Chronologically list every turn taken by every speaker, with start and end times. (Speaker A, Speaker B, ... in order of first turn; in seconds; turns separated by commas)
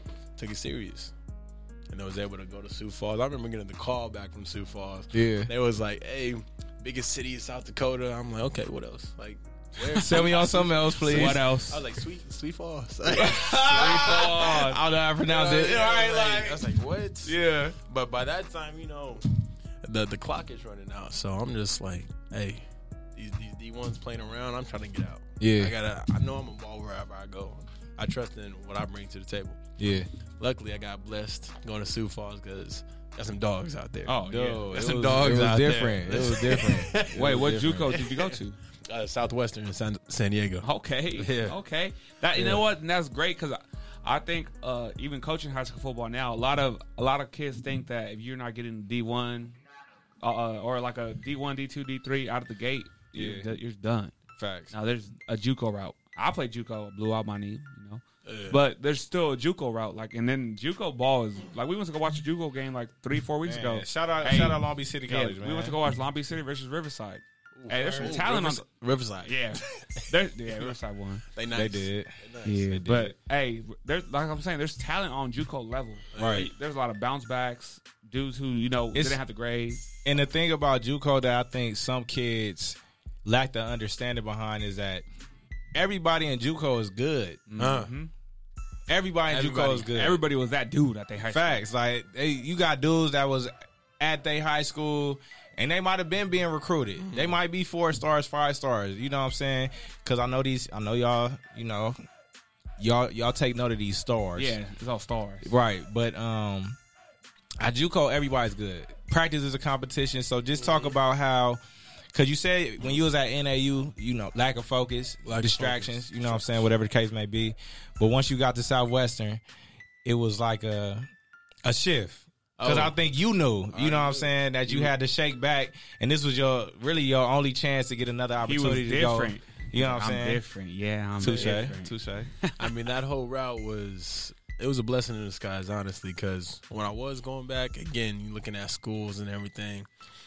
Speaker A: 0.4-1.1, Speaker A: 1.9-14.7, Speaker B: 5.1-5.5, Speaker B: 9.9-11.8, Speaker C: 11.0-11.8, Speaker B: 13.1-16.6, Speaker C: 13.6-14.8, Speaker A: 15.3-19.2, Speaker B: 17.2-17.8, Speaker A: 19.8-29.6, Speaker B: 25.4-25.8, Speaker B: 29.8-30.1, Speaker A: 30.4-41.6, Speaker C: 34.1-34.7, Speaker B: 34.3-38.0, Speaker C: 37.1-38.6, Speaker C: 40.6-49.6, Speaker B: 42.3-42.6, Speaker C: 50.2-54.1, Speaker B: 53.1-53.5, Speaker B: 54.4-54.7, Speaker C: 54.7-68.7, Speaker A: 58.2-58.6, Speaker B: 63.5-65.8, Speaker A: 67.5-72.9, Speaker C: 69.2-71.2, Speaker B: 71.5-72.2, Speaker C: 72.5-79.8, Speaker B: 72.8-73.1, Speaker A: 76.1-76.5, Speaker B: 76.2-76.5, Speaker B: 78.9-79.2, Speaker B: 80.0-85.0, Speaker B: 85.7-87.4, Speaker C: 87.5-88.1, Speaker A: 87.6-87.9, Speaker B: 88.9-90.2, Speaker A: 89.3-89.9, Speaker C: 89.9-91.6, Speaker B: 91.3-102.0, Speaker A: 97.0-97.4, Speaker B: 102.8-104.5, Speaker C: 104.4-105.5, Speaker B: 105.4-106.8, Speaker B: 107.6-111.6, Speaker A: 110.5-111.0, Speaker B: 112.1-119.4, Speaker A: 115.2-116.7, Speaker B: 120.0-121.1, Speaker B: 121.6-130.4, Speaker A: 122.6-123.0, Speaker A: 123.7-124.9, Speaker C: 128.4-132.7, Speaker B: 131.2-132.3, Speaker A: 132.6-139.9